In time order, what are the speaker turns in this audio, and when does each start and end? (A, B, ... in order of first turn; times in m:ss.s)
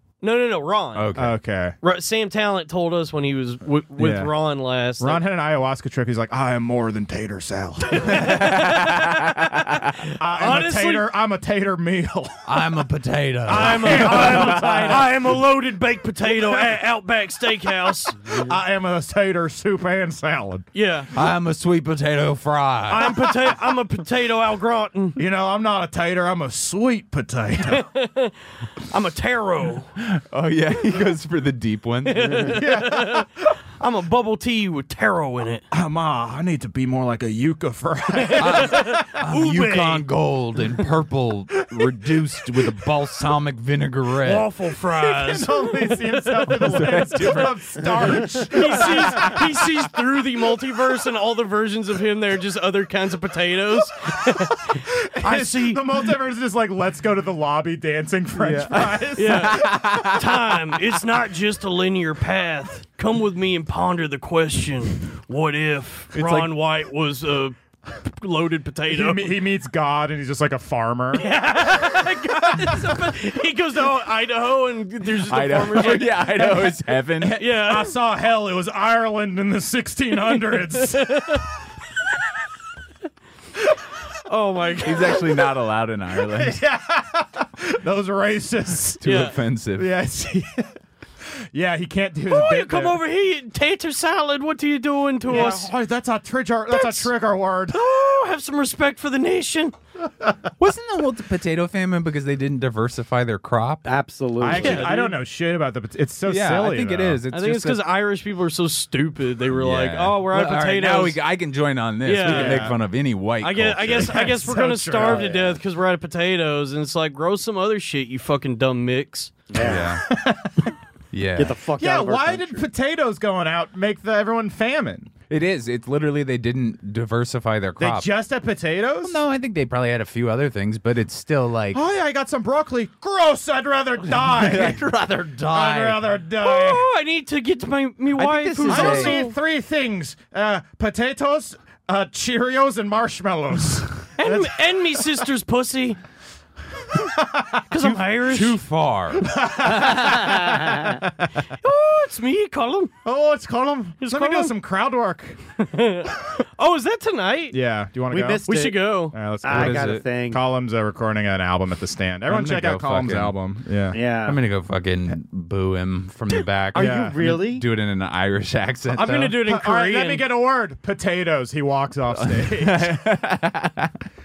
0:00.2-0:01.1 A
0:00.9-0:01.4 B
0:01.2-0:01.8 C
0:01.8-0:05.2 A
0:04.0-0:04.3 C
0:05.0-0:08.5 C
0:07.9-0:09.4 A
0:08.1-0:10.0 B
0:10.0-0:11.1 A
0:10.2-0:12.6 C
0:12.4-0:15.0 B
0:13.5-0:15.4 C
0:13.5-0:18.3 A
0:16.3-0:16.7 C
0:18.3-0:20.6 C
0:20.7-0:21.1 A
0:21.1-0:23.2 B
0:22.9-0:25.2 A
0:25.2-0:27.8 C
0:27.6-0:29.9 A
0:30.0-0:32.6 B
0:32.0-0:35.6 A
0:32.5-0:33.3 C
0:35.7-0:39.2 C
0:38.1-0:40.0 A
0:38.4-0:44.5 B
0:44.2-0:47.4 A
0:44.9-0:49.9 C
0:46.5-0:48.2 B
0:48.0-0:56.1 A
0:54.7-0:59.8 C
0:58.3-1:01.0 B
0:59.2-1:09.4 A
1:08.9-1:11.3 C
1:11.1-1:16.8 A
1:12.5-1:12.9 C
1:15.2-1:17.4 B
1:17.2-1:21.4 C
1:17.4-1:18.0 A
1:20.3-1:21.4 A
1:24.2-1:25.5 A
1:24.8-1:26.6 B
1:26.3-1:30.7 C
1:29.0-1:29.9 B
1:29.0-1:29.3 A
1:31.5-1:33.0 C
1:32.3-1:35.7 A
1:35.2-1:37.8 C
1:36.7-1:37.1 A
1:37.7-1:39.7 A
1:40.6-1:43.9 B
1:43.8-1:44.9 D
1:44.4-1:47.2 C
1:44.6-1:45.2 A
1:46.2-1:47.8 B
1:47.3-1:51.2 A
1:49.5-1:54.3 B
1:52.0-1:52.8 A
1:52.2-1:52.8 C
1:53.4-1:59.5 A
1:54.0-1:55.3 C
1:55.0-1:55.6 D
1:59.5-1:59.9 D
1:59.6-2:00.1 B
1:59.6-2:00.7 C
2:01.1-2:01.6 B
2:01.4-2:02.7 D
2:01.8-2:05.1 C
2:05.3-2:08.1 B
2:07.8-2:09.2 C
2:09.0-2:11.8 B
2:11.7-2:14.8 C
2:14.1-2:16.0 B
2:15.5-2:16.9 C
2:16.4-2:19.4 A
2:18.2-2:19.2 B
2:18.7-2:24.6 C
2:24.2-2:26.0 A
2:26.9-2:27.6 C
2:27.7-2:28.6 A
2:27.8-2:29.3 B
2:29.1-2:31.4 C
2:29.6-2:31.0 D
2:31.6-2:32.9 A
2:33.0-2:35.4 C
2:34.0-2:34.5 A
2:35.6-2:37.6 A
2:37.5-2:38.4 C
2:38.1-2:38.8 D
2:38.4-2:39.2 A
2:39.1-2:44.0 C
2:39.4-2:40.4 D
2:39.5-2:40.0 B
2:42.3-2:43.3 B
2:43.9-2:44.4 D
2:43.9-2:49.4 B
2:46.7-2:47.6 D
2:46.7-2:47.2 C
2:48.9-2:50.2 A
2:49.4-2:53.0 C
2:52.1-2:54.0 B